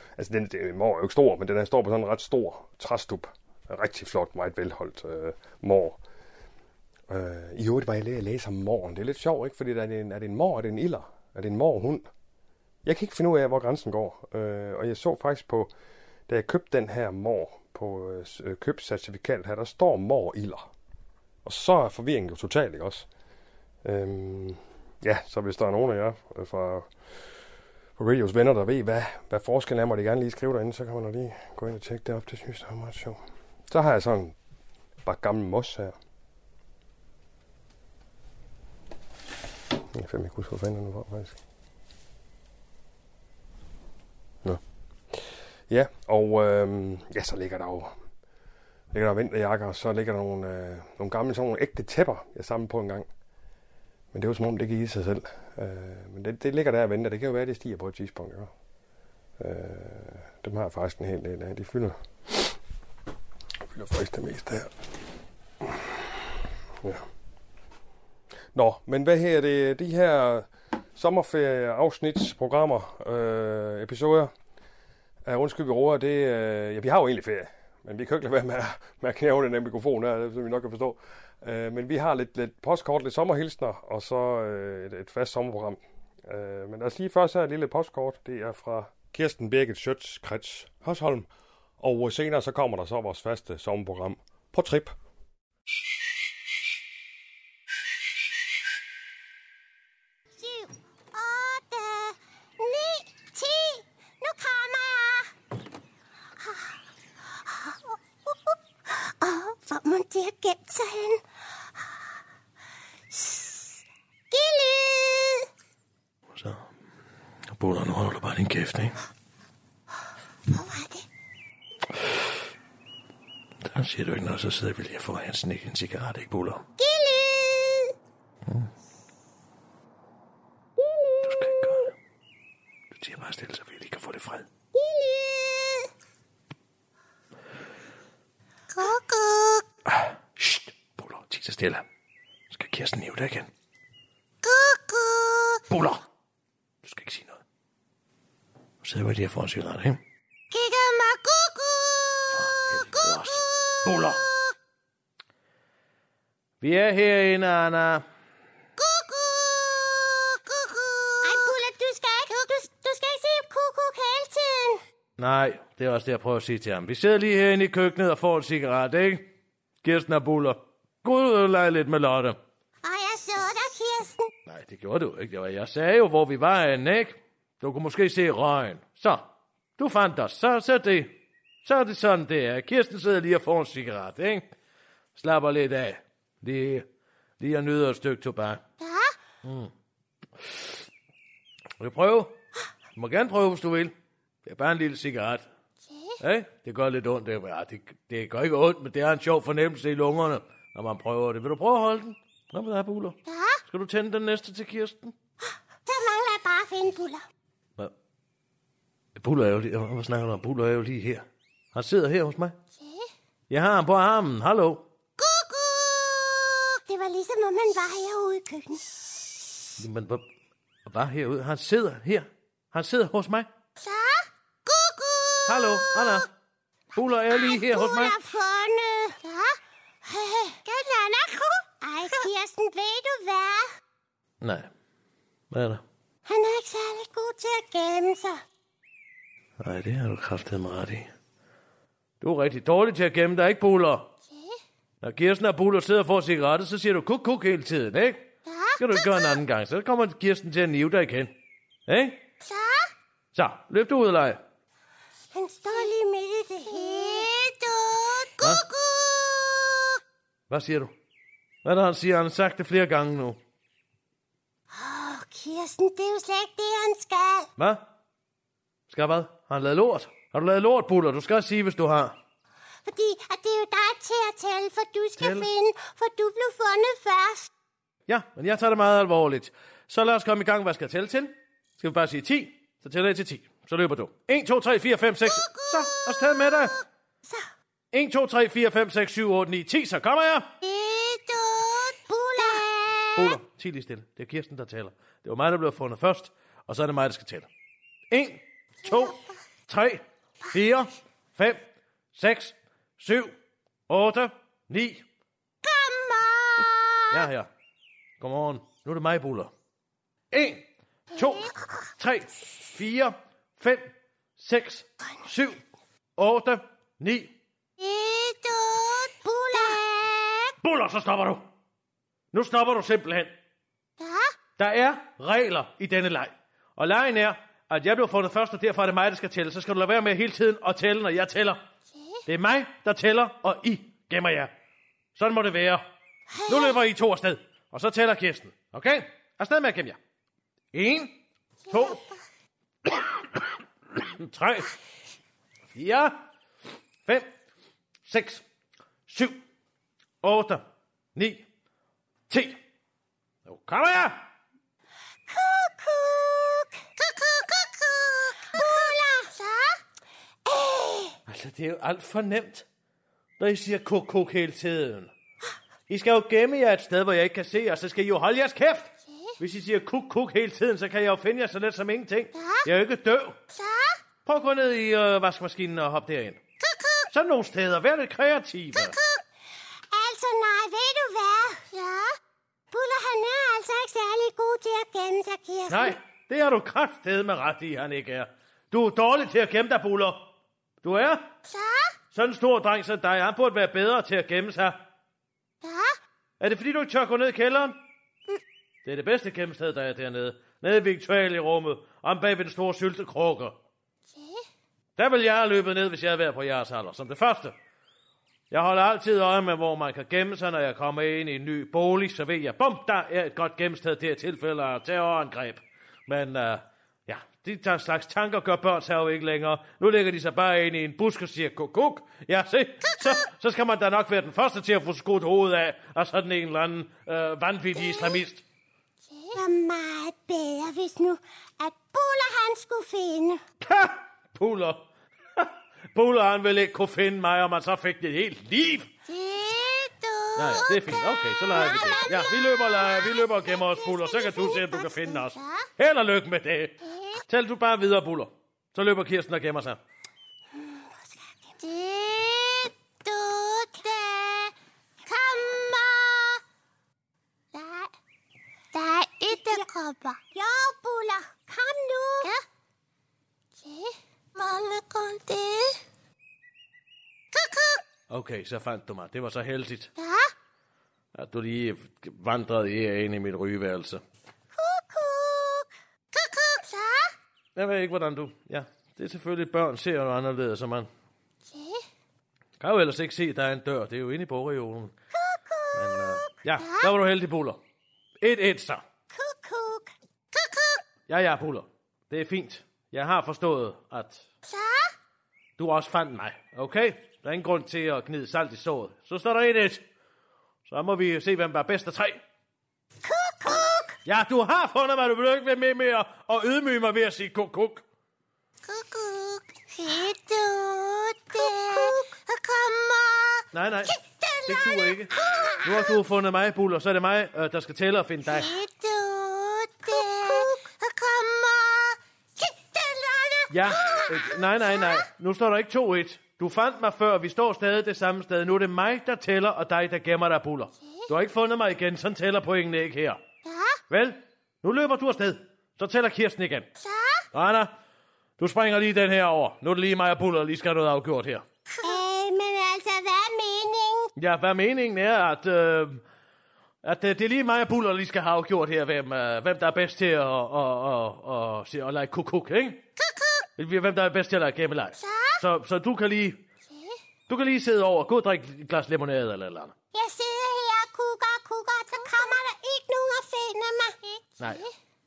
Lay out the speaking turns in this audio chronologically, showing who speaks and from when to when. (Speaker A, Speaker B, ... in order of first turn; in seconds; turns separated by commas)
Speaker A: 0.2-6.0, Speaker A: 7.1-12.1, Speaker A: 12.8-15.7, Speaker A: 16.3-20.7, Speaker A: 21.4-23.1, Speaker A: 23.8-26.9, Speaker A: 28.0-34.4, Speaker A: 35.0-35.9, Speaker A: 39.9-41.4, Speaker A: 45.7-47.9, Speaker A: 48.9-53.1, Speaker A: 54.1-58.5, Speaker A: 59.4-62.5, Speaker A: 63.7-64.7, Speaker A: 65.7-66.1, Speaker A: 68.5-74.3, Speaker A: 75.2-91.3, Speaker A: 91.8-94.9, Speaker B: 100.4-105.3, Speaker B: 106.4-106.7, Speaker B: 107.5-107.8, Speaker B: 108.9-111.2, Speaker B: 113.1-113.7, Speaker B: 114.3-115.5, Speaker C: 116.3-116.7, Speaker C: 117.6-119.0, Speaker B: 120.5-121.0, Speaker C: 123.6-126.6, Speaker B: 126.8-127.9, Speaker C: 131.2-131.9, Speaker C: 132.9-134.4, Speaker B: 134.7-135.9, Speaker B: 138.8-139.6, Speaker C: 139.9-141.8, Speaker C: 142.5-143.5, Speaker B: 144.4-145.6, Speaker C: 145.7-146.0, Speaker C: 146.8-147.4, Speaker C: 148.8-150.0, Speaker B: 150.5-152.3, Speaker C: 152.3-154.2, Speaker B: 153.3-154.2, Speaker C: 156.6-158.0, Speaker B: 161.2-164.8, Speaker C: 165.2-169.2, Speaker C: 169.8-172.4, Speaker B: 172.8-174.3, Speaker C: 174.5-179.2, Speaker C: 179.8-181.1, Speaker C: 181.6-184.4, Speaker C: 185.2-186.8, Speaker C: 187.4-188.6, Speaker B: 188.8-189.1, Speaker C: 189.4-189.7, Speaker C: 190.4-190.7, Speaker C: 191.8-192.4, Speaker C: 192.9-193.9, Speaker C: 194.4-195.4, Speaker B: 195.9-196.1, Speaker C: 196.2-203.2, Speaker B: 203.3-203.6, Speaker C: 203.7-205.1, Speaker B: 205.8-207.2, Speaker C: 209.2-212.6, Speaker B: 212.8-213.1, Speaker C: 213.5-214.8, Speaker B: 215.2-219.5, Speaker C: 219.8-220.2, Speaker C: 220.8-223.5, Speaker B: 223.8-226.2, Speaker C: 225.5-226.3, Speaker C: 226.9-228.2, Speaker B: 227.3-229.5, Speaker B: 230.1-233.7, Speaker C: 234.4-234.7, Speaker C: 235.5-235.8, Speaker B: 236.3-238.4, Speaker C: 239.6-241.1, Speaker C: 242.2-244.1, Speaker C: 245.0-248.3, Speaker B: 248.4-249.3, Speaker C: 248.8-251.3, Speaker C: 251.9-252.2, Speaker B: 252.4-252.9, Speaker C: 253.3-254.4, Speaker B: 255.3-259.9, Speaker C: 258.4-258.6, Speaker C: 260.5-260.9, Speaker C: 261.6-263.4, Speaker B: 264.7-267.5, Speaker C: 267.6-267.8, Speaker C: 268.9-272.1, Speaker B: 272.9-277.5, Speaker C: 275.2-275.5, Speaker C: 278.1-286.8, Speaker B: 285.4-286.6, Speaker C: 287.9-290.5, Speaker B: 290.6-293.4, Speaker C: 293.1-297.5, Speaker C: 298.1-299.2, Speaker B: 298.9-299.2, Speaker C: 299.7-303.3, Speaker C: 303.9-305.0, Speaker B: 305.6-307.2, Speaker C: 307.1-307.5, Speaker C: 308.2-309.5, Speaker C: 310.3-315.6, Speaker C: 316.2-317.3, Speaker B: 317.8-320.5, Speaker C: 320.6-321.4, Speaker C: 322.3-323.3, Speaker B: 324.0-324.3, Speaker C: 324.6-331.6, Speaker C: 332.2-334.5, Speaker C: 335.1-335.8, Speaker B: 336.4-336.7, Speaker C: 336.4-340.0, Speaker C: 340.7-342.0, Speaker B: 341.7-342.1, Speaker C: 342.9-343.4, Speaker C: 343.9-344.7, Speaker C: 345.7-346.2, Speaker C: 347.0-347.3, Speaker C: 348.1-348.4, Speaker C: 349.1-349.4, Speaker C: 350.2-350.6, Speaker C: 351.1-351.4, Speaker C: 352.3-352.6, Speaker C: 353.4-354.3, Speaker B: 355.3-359.8, Speaker B: 360.5-361.1, Speaker C: 361.3-362.6, Speaker C: 363.4-365.1, Speaker C: 365.9-373.4, Speaker B: 372.3-372.6, Speaker B: 373.5-374.0, Speaker C: 374.2-376.4, Speaker B: 376.6-377.1, Speaker C: 377.1-378.9, Speaker B: 378.8-379.2, Speaker B: 379.9-382.1, Speaker B: 382.7-386.0, Speaker C: 385.7-390.3, Speaker C: 390.8-391.3, Speaker B: 391.4-391.9, Speaker C: 392.1-394.8, Speaker B: 395.6-395.9, Speaker C: 396.4-397.8, Speaker C: 398.8-403.5, Speaker B: 404.1-404.4, Speaker C: 405.0-407.5, Speaker C: 408.5-428.4, Speaker B: 427.8-428.1, Speaker B: 429.3-433.4, Speaker C: 433.6-434.9, Speaker C: 435.4-438.9, Speaker B: 439.1-445.7, Speaker C: 440.4-449.8, Speaker B: 446.9-447.2, Speaker B: 451.6-454.5, Speaker B: 455.1-456.4, Speaker B: 457.5-457.9, Speaker B: 458.7-462.3, Speaker B: 463.6-465.5, Speaker B: 467.3-467.8, Speaker C: 468.1-469.9, Speaker B: 470.0-470.3, Speaker C: 471.1-474.0, Speaker B: 474.6-477.1, Speaker C: 477.6-480.9, Speaker B: 481.5-481.8, Speaker C: 482.6-484.9, Speaker B: 485.1-486.9, Speaker C: 485.7-487.6, Speaker C: 488.2-488.8, Speaker B: 489.1-490.8, Speaker C: 491.1-494.2, Speaker B: 494.4-494.9, Speaker C: 495.6-499.8, Speaker C: 500.7-502.2, Speaker B: 503.0-504.0, Speaker C: 504.1-507.8, Speaker B: 508.7-515.6, Speaker C: 513.5-518.5, Speaker B: 518.3-525.0, Speaker C: 523.5-533.2, Speaker B: 533.4-533.8, Speaker C: 533.9-536.7, Speaker B: 536.8-537.2, Speaker C: 537.3-537.7, Speaker C: 538.4-541.5, Speaker B: 541.8-544.1, Speaker C: 544.2-546.0, Speaker C: 546.8-552.8, Speaker B: 553.0-553.4, Speaker C: 553.6-556.4, Speaker B: 555.0-555.4, Speaker C: 557.3-559.7, Speaker B: 559.9-564.7